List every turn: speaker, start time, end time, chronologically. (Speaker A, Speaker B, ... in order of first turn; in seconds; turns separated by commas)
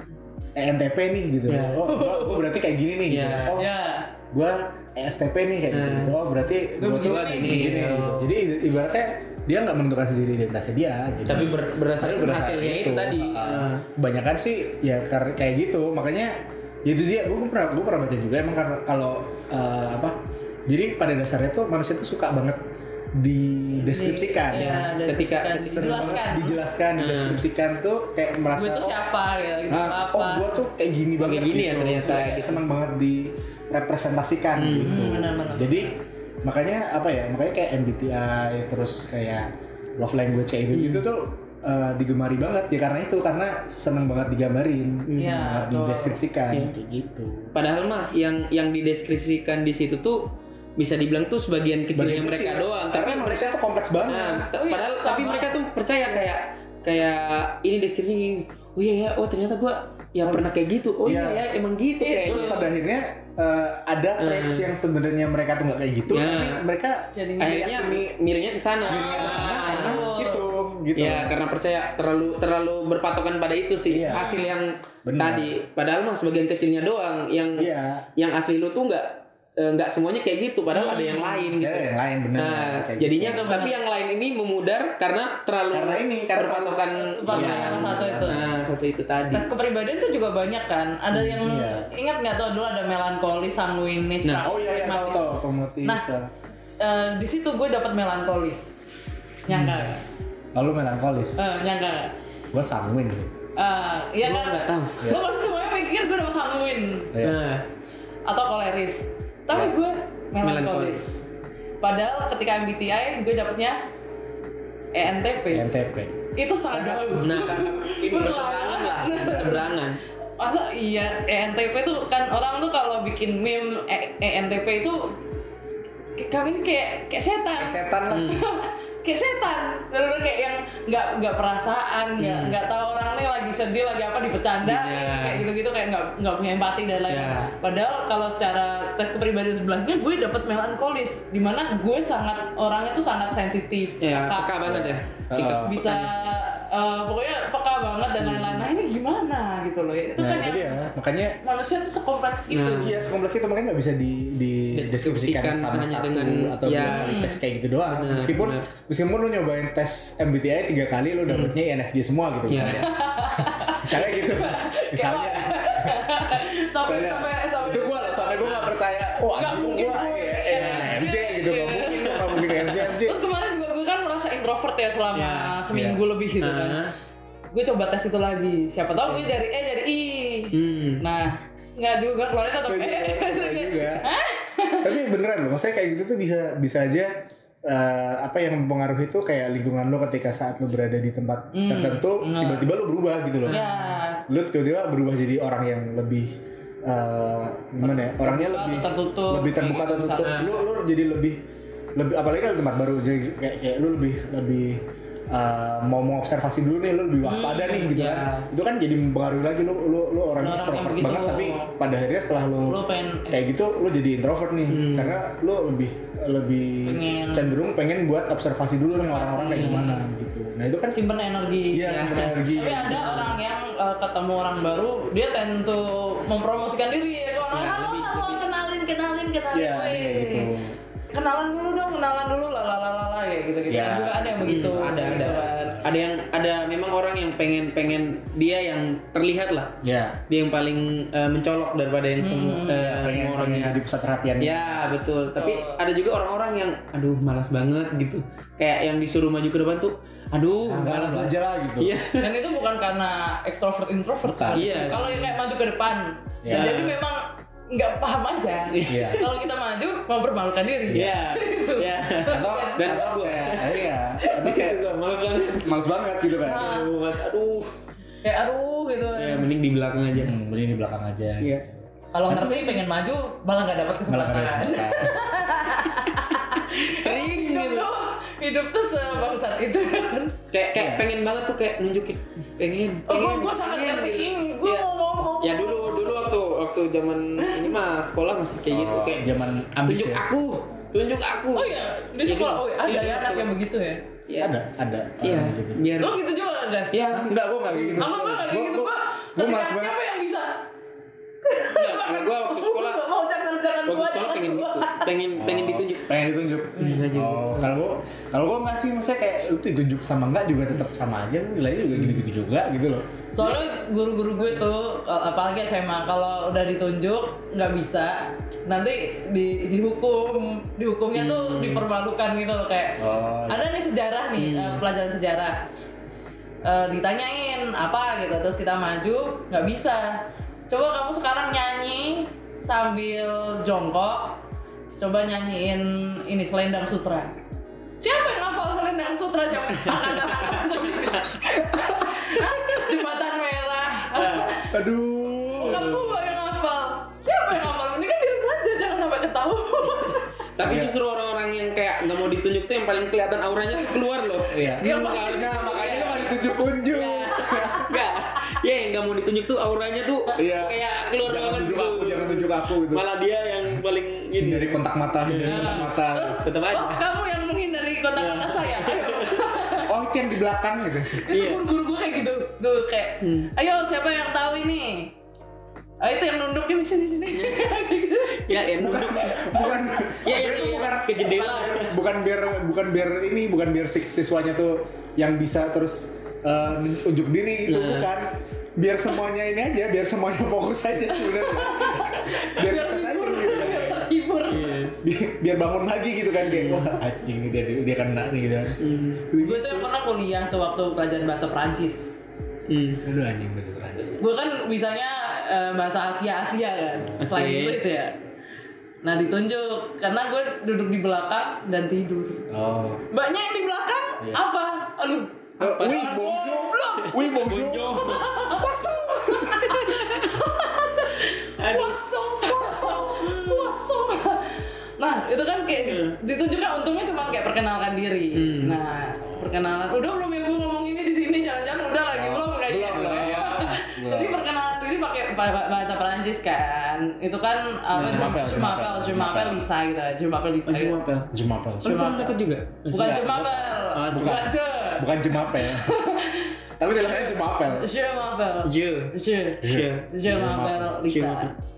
Speaker A: 0.6-3.7, Speaker B: 1.5-1.8, Speaker C: 1.9-2.5, Speaker B: 3.1-3.6, Speaker C: 3.6-4.1, Speaker A: 4.3-22.6, Speaker B: 5.7-6.2, Speaker C: 6.8-7.8, Speaker B: 7.0-8.3, Speaker B: 11.2-13.8, Speaker C: 11.3-11.6, Speaker A: 23.1-24.8, Speaker C: 23.9-26.6, Speaker B: 24.5-25.9, Speaker A: 25.5-29.0, Speaker B: 27.0-27.4, Speaker C: 28.5-30.6, Speaker A: 29.7-47.5, Speaker B: 31.2-32.6, Speaker B: 34.5-35.0, Speaker C: 34.9-35.9, Speaker B: 40.7-41.0, Speaker B: 45.1-45.4, Speaker C: 45.2-46.2, Speaker B: 47.5-62.6, Speaker A: 51.9-54.5, Speaker C: 54.5-55.5, Speaker A: 60.2-60.5, Speaker A: 61.0-61.4, Speaker C: 62.0-62.7, Speaker A: 62.2-68.2, Speaker B: 64.2-64.7, Speaker B: 66.1-66.7, Speaker C: 67.1-67.7, Speaker B: 67.4-70.1, Speaker A: 68.8-71.3, Speaker C: 68.9-70.5, Speaker B: 70.9-89.5, Speaker A: 73.9-74.4, Speaker C: 74.1-74.5, Speaker A: 75.0-75.5, Speaker A: 77.5-78.1, Speaker C: 80.7-81.5, Speaker A: 81.6-83.6, Speaker C: 83.2-83.8, Speaker A: 85.7-88.5, Speaker C: 87.0-88.4, Speaker C: 89.3-96.0, Speaker A: 91.1-91.9, Speaker A: 94.4-96.3, Speaker C: 96.8-98.8, Speaker C: 99.5-100.0, Speaker A: 99.5-99.8, Speaker A: 100.5-101.4, Speaker C: 101.4-102.1, Speaker A: 102.5-103.3, Speaker C: 103.5-107.1, Speaker B: 104.2-105.0, Speaker A: 107.1-107.4, Speaker B: 107.2-107.6, Speaker C: 108.3-111.2, Speaker B: 110.4-111.2, Speaker C: 111.8-113.8, Speaker C: 114.9-115.7, Speaker A: 115.5-117.8, Speaker C: 116.3-119.7, Speaker B: 117.2-120.0, Speaker C: 120.4-125.2, Speaker C: 126.2-144.8, Speaker A: 127.6-128.4, Speaker B: 128.1-128.5, Speaker B: 132.2-132.6, Speaker B: 134.6-135.4, Speaker B: 137.1-137.5, Speaker B: 144.0-146.1, Speaker A: 144.6-146.0, Speaker C: 145.6-150.9, Speaker B: 148.2-148.7, Speaker A: 150.2-151.4, Speaker C: 151.4-153.0, Speaker B: 152.5-153.0, Speaker A: 152.8-166.2, Speaker B: 154.7-157.2, Speaker C: 156.8-157.4, Speaker B: 157.9-158.7, Speaker B: 161.3-161.5, Speaker B: 162.5-162.9, Speaker C: 162.6-168.7, Speaker A: 166.8-173.2, Speaker C: 169.3-172.2, Speaker B: 170.5-171.1, Speaker B: 171.9-172.9, Speaker C: 173.0-176.8, Speaker B: 175.1-175.6, Speaker A: 175.7-176.0, Speaker B: 176.4-176.9, Speaker C: 177.5-184.9, Speaker B: 179.0-179.3, Speaker B: 180.5-181.0, Speaker A: 182.6-184.1, Speaker A: 184.8-187.1, Speaker A: 187.7-193.6, Speaker C: 191.5-192.7, Speaker B: 193.4-194.0, Speaker C: 193.5-194.2, Speaker A: 194.3-201.4, Speaker C: 197.9-200.5, Speaker B: 200.2-200.5, Speaker A: 201.9-221.0, Speaker C: 207.2-208.0, Speaker B: 207.9-208.5, Speaker C: 210.4-211.7, Speaker C: 212.6-213.4, Speaker B: 214.7-215.2, Speaker C: 216.8-217.5, Speaker C: 219.0-220.0, Speaker B: 219.6-219.8, Speaker C: 220.9-230.5, Speaker A: 221.7-223.3, Speaker B: 221.8-223.3, Speaker B: 227.5-228.4, Speaker A: 229.5-230.8, Speaker C: 231.1-235.8, Speaker A: 233.7-235.9, Speaker B: 234.4-243.8, Speaker A: 239.8-240.2, Speaker C: 242.2-242.8, Speaker A: 242.8-245.1, Speaker B: 244.4-252.4, Speaker C: 245.3-245.8, Speaker A: 250.6-252.0, Speaker C: 252.2-263.1, Speaker A: 254.2-254.8, Speaker B: 254.5-255.4, Speaker A: 256.4-256.8, Speaker B: 256.5-257.0, Speaker B: 258.7-259.2, Speaker A: 258.9-259.3, Speaker A: 260.9-261.2, Speaker B: 260.9-267.7, Speaker A: 262.3-264.8, Speaker A: 265.6-266.7, Speaker C: 266.4-266.9, Speaker C: 268.2-269.5, Speaker B: 269.1-270.4, Speaker A: 270.1-272.8, Speaker B: 271.4-271.6, Speaker C: 272.1-280.4, Speaker A: 274.1-275.3, Speaker B: 276.8-277.9, Speaker B: 280.5-284.9, Speaker A: 280.8-281.1, Speaker C: 283.1-286.2, Speaker B: 285.4-293.5, Speaker C: 287.4-287.8, Speaker A: 288.7-290.3, Speaker C: 291.5-294.0, Speaker B: 294.3-294.5, Speaker A: 294.4-295.8, Speaker B: 295.2-296.2, Speaker C: 296.0-297.0, Speaker B: 296.9-298.1, Speaker A: 297.1-300.0, Speaker C: 298.0-300.6, Speaker C: 301.5-305.1, Speaker B: 301.6-303.0, Speaker B: 303.9-306.1, Speaker A: 305.3-313.1, Speaker C: 306.8-307.1, Speaker B: 306.8-307.8, Speaker B: 311.9-312.2, Speaker C: 313.3-325.6, Speaker B: 321.1-321.9, Speaker A: 323.0-323.6, Speaker B: 324.4-324.8, Speaker C: 326.6-334.4, Speaker C: 335.0-337.4, Speaker C: 338.0-344.7, Speaker B: 339.8-341.2, Speaker A: 341.6-342.2, Speaker B: 344.1-344.5, Speaker A: 344.7-345.9, Speaker C: 345.5-350.3, Speaker B: 345.6-346.2, Speaker B: 350.6-367.1, Speaker A: 350.6-350.9, Speaker A: 354.5-357.9, Speaker A: 360.4-363.1, Speaker A: 364.4-366.4, Speaker C: 365.4-369.9, Speaker B: 368.1-369.6, Speaker A: 369.8-371.2, Speaker C: 371.2-375.1, Speaker B: 371.3-371.7, Speaker B: 373.2-373.5, Speaker C: 376.0-378.6, Speaker B: 377.3-377.8, Speaker B: 378.5-382.0, Speaker A: 378.8-394.1, Speaker B: 387.7-388.1, Speaker C: 391.2-394.8, Speaker B: 394.5-394.9, Speaker A: 395.0-399.9, Speaker B: 396.4-397.0, Speaker B: 398.8-399.2, Speaker C: 399.4-402.2, Speaker B: 402.7-403.0, Speaker A: 403.0-404.2, Speaker C: 404.1-408.2, Speaker A: 407.0-407.2, Speaker B: 407.2-407.8, Speaker C: 409.0-412.5, Speaker A: 412.5-413.1, Speaker C: 413.1-417.2, Speaker B: 415.6-416.1, Speaker A: 415.6-419.8, Speaker B: 417.0-418.3, Speaker C: 418.1-441.0, Speaker B: 419.5-420.4, Speaker B: 421.6-423.7, Speaker B: 425.8-426.2, Speaker B: 428.4-428.8, Speaker A: 429.2-429.5, Speaker A: 432.1-434.4, Speaker B: 432.9-433.6, Speaker B: 437.9-438.4, Speaker A: 438.0-439.6, Speaker B: 440.7-441.3, Speaker A: 441.3-442.1, Speaker B: 441.8-443.2, Speaker C: 441.8-442.4, Speaker A: 442.9-446.0, Speaker C: 442.9-451.5, Speaker B: 443.9-444.4, Speaker A: 446.8-447.9, Speaker B: 448.6-449.1, Speaker A: 449.6-451.0, Speaker B: 449.6-450.1, Speaker B: 451.1-451.5